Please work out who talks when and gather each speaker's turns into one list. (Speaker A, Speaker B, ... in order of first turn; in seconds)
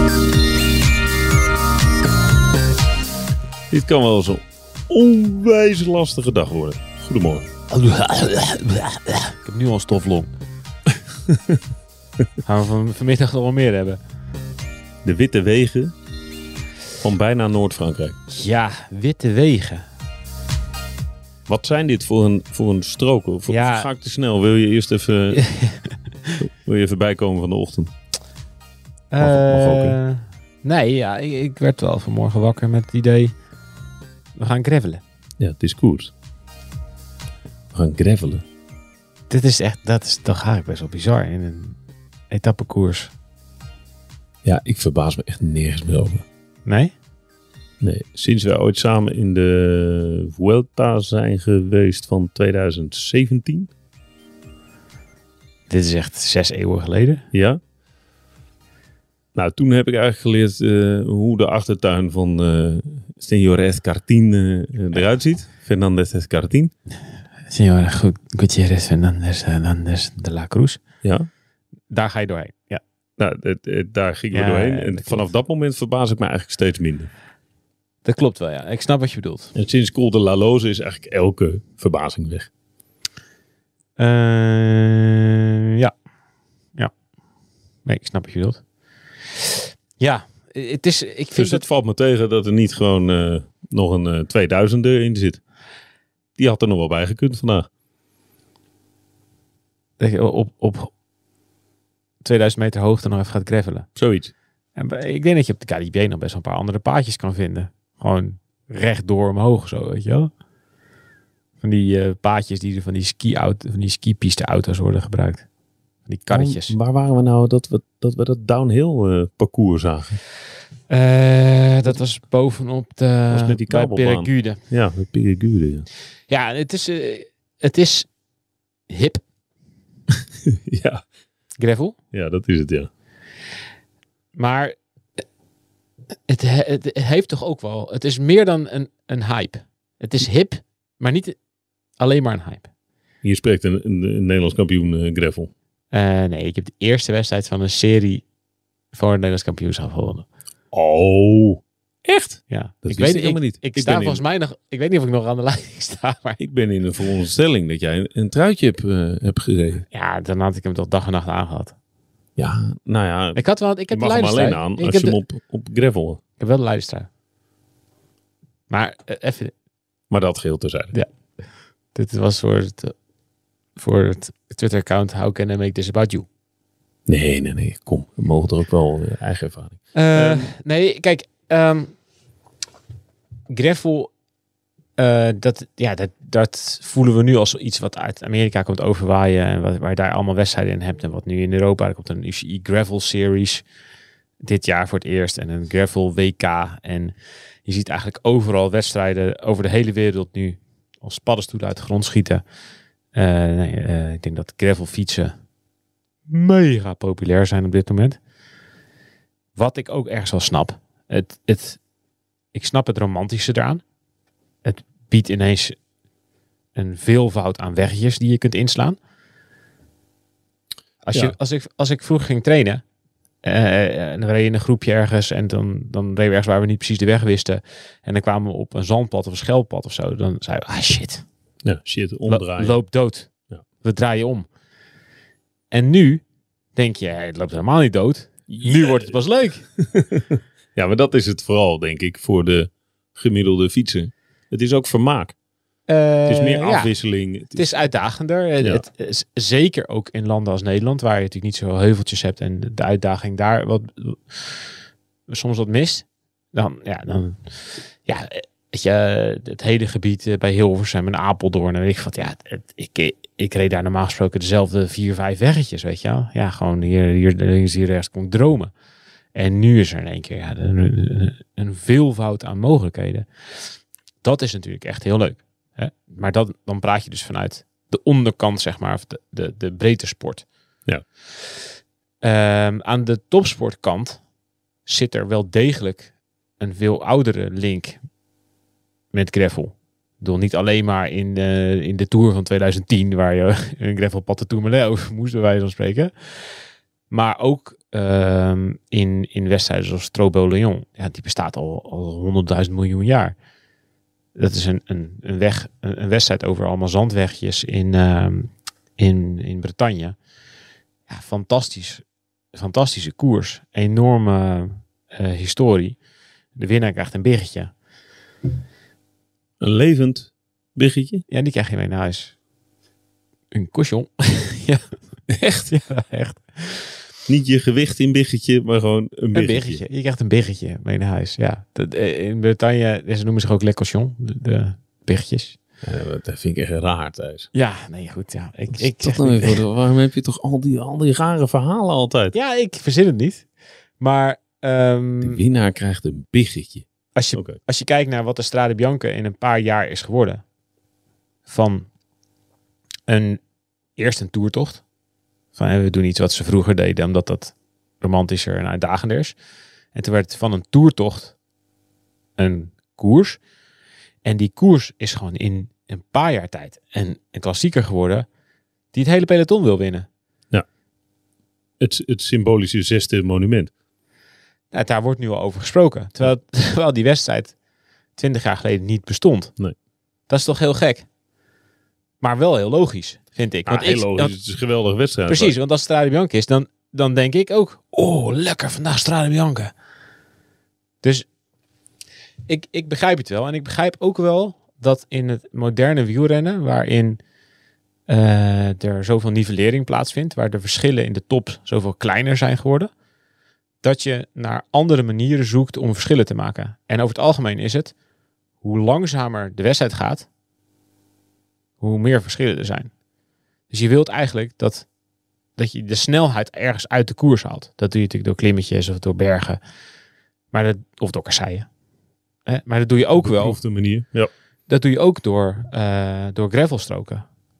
Speaker A: 3.7-7.5, 15.0-15.9, 17.0-18.2, 21.5-25.5, 26.4-27.9, 29.2-30.0, 35.4-36.1, 37.7-38.4, 44.4-46.2, 47.8-53.7, 57.3-57.6, 59.3-66.7, 71.0-71.3, 73.2-77.1, 79.5-82.5, 91.3-95.4, 96.4-97.7, 104.0-104.3, 116.3-120.2, 123.3-125.9, 130.7-131.0, 132.1-132.9, 143.2-145.5, 150.7-152.3, 152.8-154.2, 156.4-159.8, 162.4-166.2, 170.1-170.9, 177.1-180.5, 231.6-232.8, 238.5-239.2, 239.8-245.3, 246.3-247.7, 319.6-321.2, 327.3-329.8, 335.8-337.5, 338.7-342.4, 345.2-347.6, 371.8-373.7, 383.6-385.5, 423.2-424.3
Speaker B: 7.7-10.3, 12.4-14.0, 18.3-19.9, 23.5-23.9, 25.3-26.3, 29.1-33.3, 34.4-35.0, 39.3-41.8, 42.3-43.1, 46.6-46.9, 55.7-57.2, 67.5-70.8, 71.9-72.8, 74.3-75.3, 78.0-79.5, 84.0-85.9, 87.8-88.6, 90.0-91.6, 100.0-100.9, 102.2-103.9, 104.8-110.3, 111.6-115.4, 116.0-116.8, 120.9-124.6, 126.3-128.1, 128.9-129.2, 131.6-132.0, 134.3-134.7, 136.3-141.4, 142.0-142.7, 145.9-148.2, 148.9-150.3, 152.3-156.4, 159.9-161.7, 163.3-165.2, 166.4-167.1, 168.7-169.5, 171.9-172.9, 173.8-176.2, 179.9-181.9, 183.5-184.1, 185.0-193.6, 194.4-202.4, 203.1-205.3, 206.3-208.2, 209.5-211.8, 212.5-213.8, 214.6-215.8, 216.7-219.0, 221.0-222.8, 223.4-231.2, 232.2-233.3, 233.8-234.5, 235.7-236.2, 236.7-239.7, 245.9-246.9, 247.5-254.6, 255.3-257.4, 258.0-268.7, 269.3-273.3, 274.2-280.4, 282.2-284.2, 284.9-288.0, 289.1-296.1, 297.1-303.4, 304.4-310.2, 311.1-316.0, 316.5-317.7, 321.3-322.3, 323.5-327.0, 329.3-335.6, 337.5-339.6, 342.3-343.4, 344.0-345.4, 347.1-350.4, 351.4-351.9, 353.1-353.4, 353.9-354.8, 355.5-359.4, 359.9-361.3, 362.4-363.4, 364.2-368.3, 368.9-370.1, 374.7-377.5, 378.2-379.5, 380.3-381.1, 382.2-384.3, 385.3-389.7, 392.5-397.2, 398.1-402.9, 403.8-407.9, 408.6-410.3, 411.8-412.9, 413.7-414.9, 415.6-419.6, 420.5-421.7, 422.4-423.6, 424.7-427.2